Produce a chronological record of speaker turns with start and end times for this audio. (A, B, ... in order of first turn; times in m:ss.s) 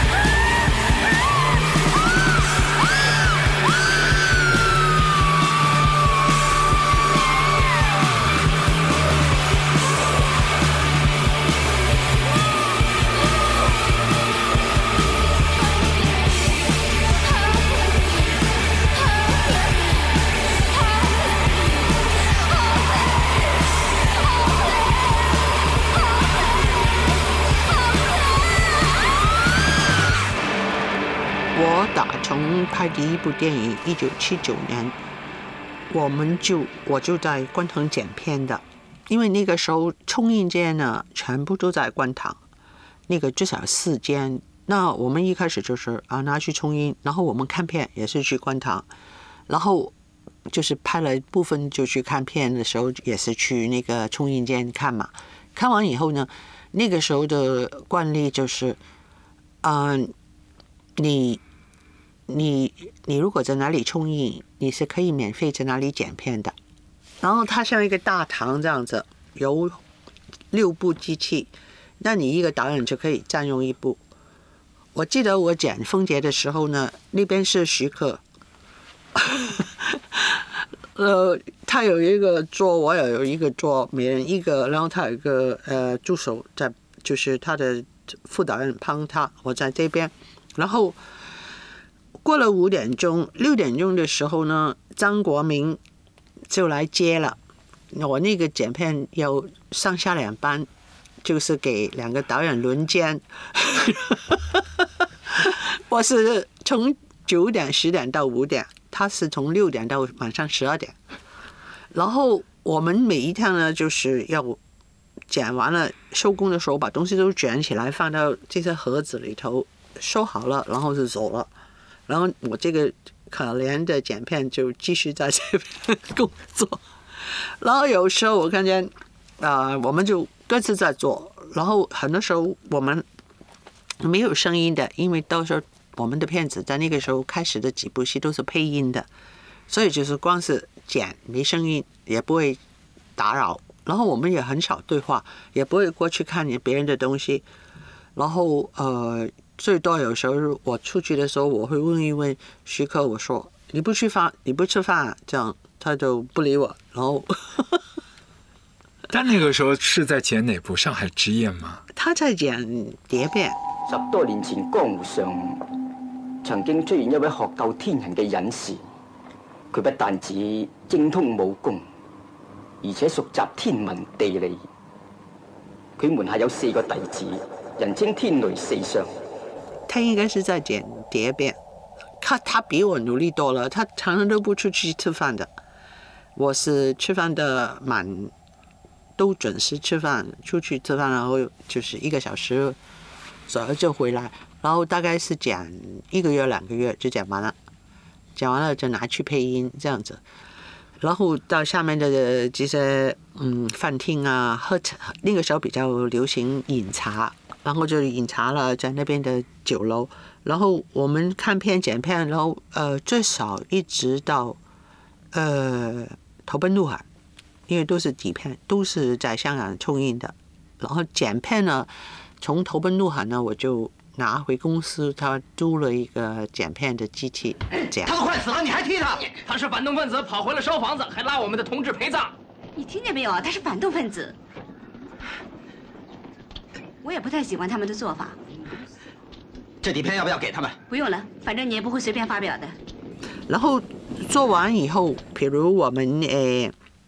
0:31.5-0:35.0 A
0:35.9-0:42.4 A
0:43.1-0:48.9 A
0:49.5-0:49.9 A
0:50.5-0:58.8 A
0:59.6-1:00.1 A
1:01.0-1:01.4 A
1:02.3-1:06.6 A
1:07.2-1:09.8 A
1:10.5-1:14.0 A
1:15.0-1:18.2 A
1:19.2-1:31.0 A
1:32.2-1:35.8 A
1:36.5-1:37.4 A
1:37.9-1:40.7 A
1:41.2-1:51.0 A
1:51.9-1:54.6 A
1:55.3-2:01.5 A
2:02.1-2:13.0 A
2:14.0-2:19.1 A
2:19.7-2:22.6 A
2:23.2-2:27.4 A
2:28.2-2:37.8 A
2:39.1-2:41.8 B
2:41.9-2:43.6 A
2:43.9-2:45.6 C
2:46.4-2:48.8 C
2:49.7-2:51.9 C
2:52.8-2:54.6 C
2:56.0-2:59.1 C
2:59.9-3:01.6 A
3:02.2-3:05.5 A
3:06.4-3:08.3 A
3:09.2-3:12.8 A
3:13.5-3:17.6 A
3:18.4-3:20.2 A
3:21.0-3:34.6 A
3:35.3-3:37.0 A
3:37.7-3:48.1 A
3:47.8-3:52.3 D
3:52.8-3:54.4 E
3:57.0-3:58.4 E
3:59.8-4:00.8 D
4:00.9-4:02.8 E
4:03.5-4:06.7 A